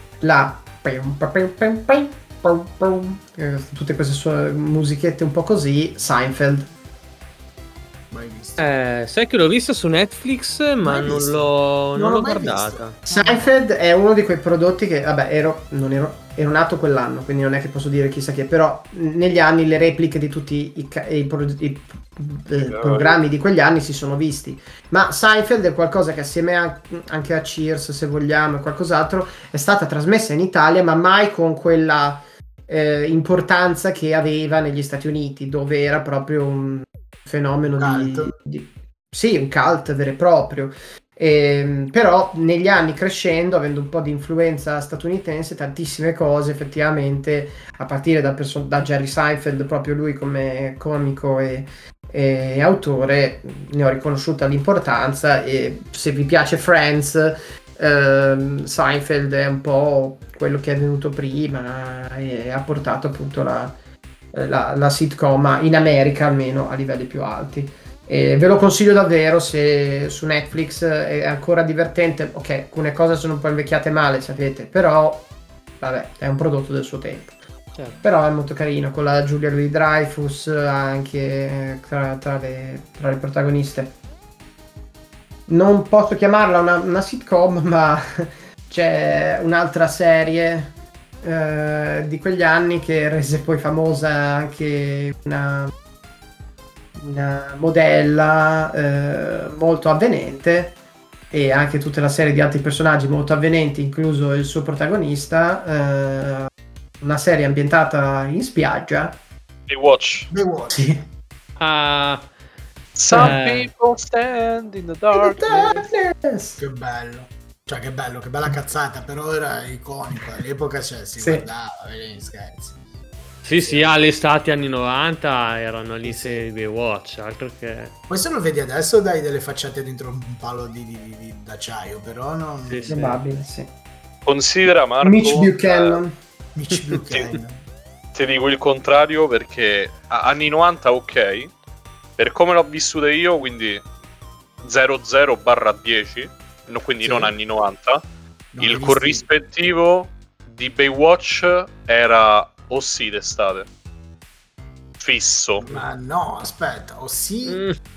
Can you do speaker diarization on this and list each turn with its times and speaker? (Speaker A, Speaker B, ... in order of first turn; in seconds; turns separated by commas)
Speaker A: 0.2-6.7, Speaker B: 8.1-8.6, Speaker C: 8.6-13.0, Speaker B: 10.8-13.5, Speaker A: 13.1-63.8, Speaker D: 22.6-23.1, Speaker B: 37.7-38.3, Speaker A: 64.3-75.3, Speaker A: 75.8-77.4, Speaker A: 78.0-83.9, Speaker A: 85.5-95.7, Speaker A: 96.9-100.8, Speaker A: 101.3-106.5, Speaker A: 107.0-109.2, Speaker D: 109.7-110.3, Speaker B: 110.3-111.0, Speaker A: 110.7-111.0, Speaker C: 111.6-112.3, Speaker D: 113.0-115.7, Speaker C: 113.1-113.7, Speaker A: 115.1-116.6, Speaker B: 115.5-115.8, Speaker B: 116.6-122.8, Speaker A: 121.2-121.5, Speaker C: 123.4-127.9, Speaker B: 123.6-123.9, Speaker B: 126.0-126.4, Speaker B: 128.1-133.1, Speaker C: 132.7-133.1, Speaker A: 132.9-133.7, Speaker D: 134.2-136.0, Speaker A: 135.0-136.1, Speaker B: 136.5-137.6, Speaker D: 138.1-141.5, Speaker D: 142.2-143.8, Speaker D: 144.6-148.0, Speaker B: 147.0-147.3, Speaker B: 148.5-149.2, Speaker D: 148.6-153.7, Speaker D: 155.0-155.7, Speaker B: 155.6-157.7, Speaker C: 157.4-157.7